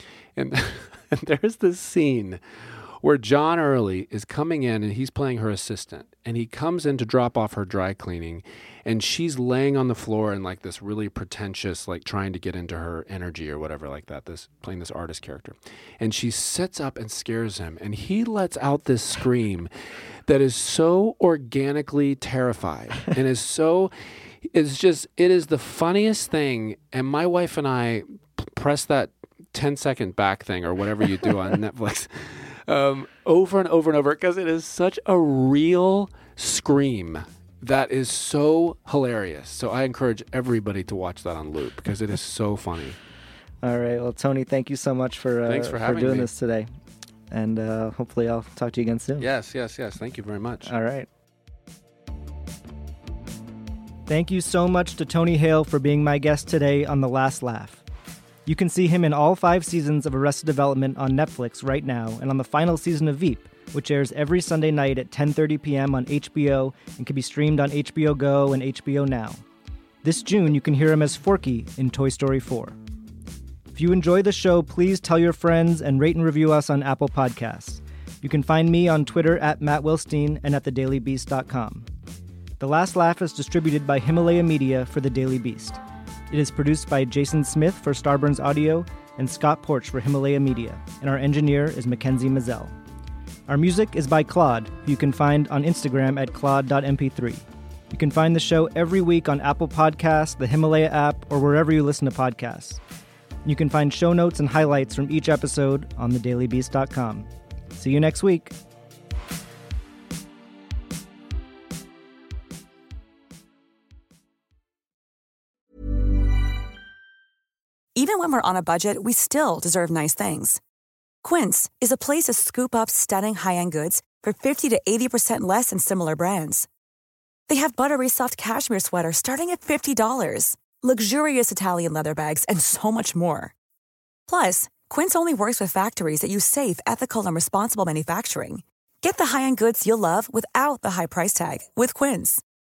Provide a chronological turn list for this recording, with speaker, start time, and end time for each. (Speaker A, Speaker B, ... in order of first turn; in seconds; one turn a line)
Speaker A: 0.3-19.7
Speaker A: 20.2-43.0
Speaker B: 43.6-46.7
Speaker A: 45.4-46.3
Speaker B: 47.3-49.3
Speaker A: 49.2-50.7
Speaker B: 50.6-51.1
Speaker B: 54.1-57.8
Speaker B: 58.5-69.4
Speaker B: 70.0-72.8
Speaker B: 73.7-81.9
Speaker B: 82.6-85.8
Speaker B: 86.3-92.7
Speaker B: 93.5-102.8
Speaker B: 103.4-108.5
Speaker C: 118.0-120.6
Speaker C: 121.2-126.7
Speaker C: 127.5-133.5
Speaker C: 134.3-142.4